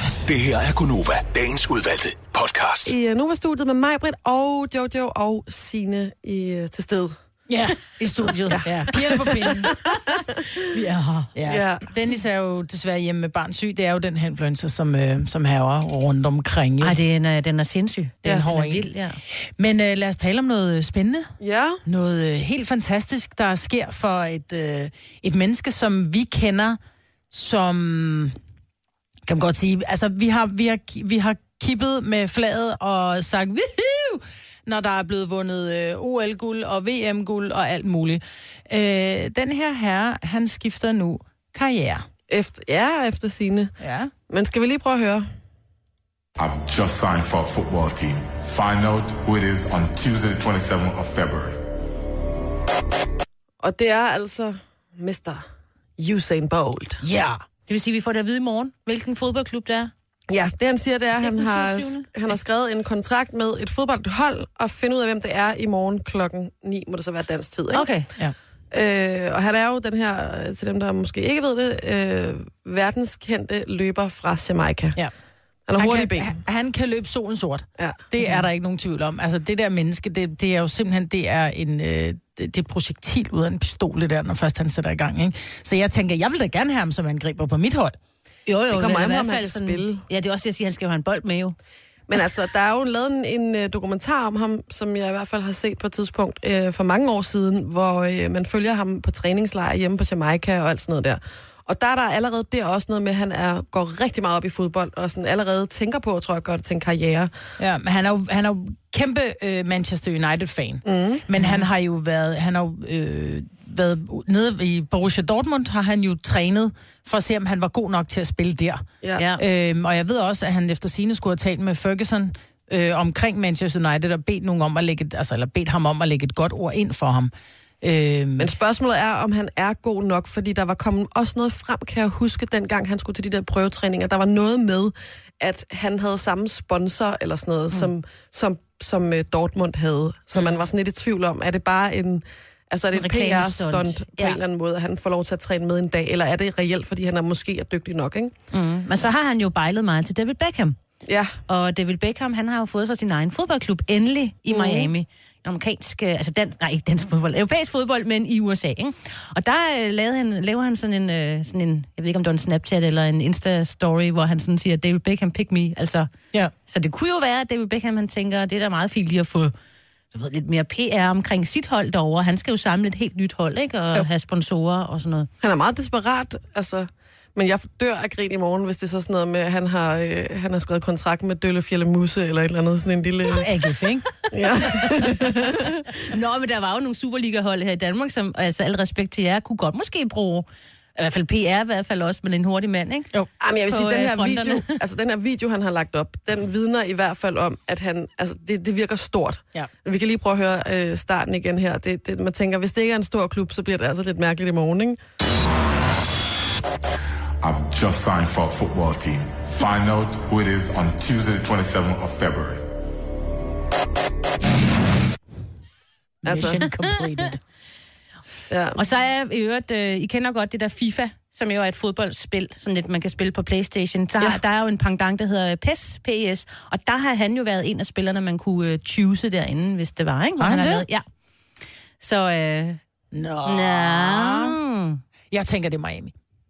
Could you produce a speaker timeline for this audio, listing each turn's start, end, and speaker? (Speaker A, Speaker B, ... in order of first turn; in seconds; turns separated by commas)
Speaker A: 0.2-2.9, Speaker B: 2.9-7.1, Speaker C: 7.5-10.0, Speaker B: 8.5-9.7, Speaker C: 10.7-17.0, Speaker B: 11.5-11.9, Speaker D: 16.8-19.2, Speaker C: 18.2-18.8, Speaker C: 19.6-21.3, Speaker B: 21.4-21.8, Speaker C: 21.9-26.8, Speaker C: 27.3-28.4, Speaker C: 29.3-42.0, Speaker B: 42.3-43.7, Speaker C: 43.8-44.1, Speaker B: 44.3-45.2, Speaker E: 46.4-51.6, Speaker B: 53.6-55.4, Speaker B: 56.0-57.0, Speaker C: 57.0-57.4, Speaker D: 57.7-59.9, Speaker B: 60.3-67.9, Speaker D: 61.1-62.1, Speaker D: 67.7-68.1, Speaker B: 68.7-75.0, Speaker B: 75.7-76.4, Speaker C: 75.8-87.9, Speaker D: 88.5-91.5, Speaker B: 88.7-90.0, Speaker B: 92.1-107.3, Speaker C: 107.6-118.8, Speaker B: 110.8-111.2, Speaker D: 111.4-111.7, Speaker C: 119.3-128.5, Speaker B: 128.4-148.3, Speaker D: 142.9-144.4, Speaker D: 148.5-150.8, Speaker B: 151.1-151.3, Speaker D: 151.5-166.1, Speaker B: 154.5-154.9, Speaker D: 166.7-169.5, Speaker D: 170.1-175.3, Speaker B: 175.4-183.5, Speaker C: 183.4-184.1, Speaker B: 184.3-185.7, Speaker D: 184.6-190.4, Speaker D: 191.0-193.1, Speaker B: 193.4-205.0, Speaker D: 193.7-194.7, Speaker E: 207.4-212.6, Speaker C: 216.2-217.4, Speaker B: 216.2-216.6, Speaker B: 218.5-218.8, Speaker D: 218.8-231.0, Speaker C: 230.4-230.8, Speaker D: 232.0-232.8, Speaker C: 233.1-234.6, Speaker D: 233.4-235.0, Speaker C: 235.3-236.1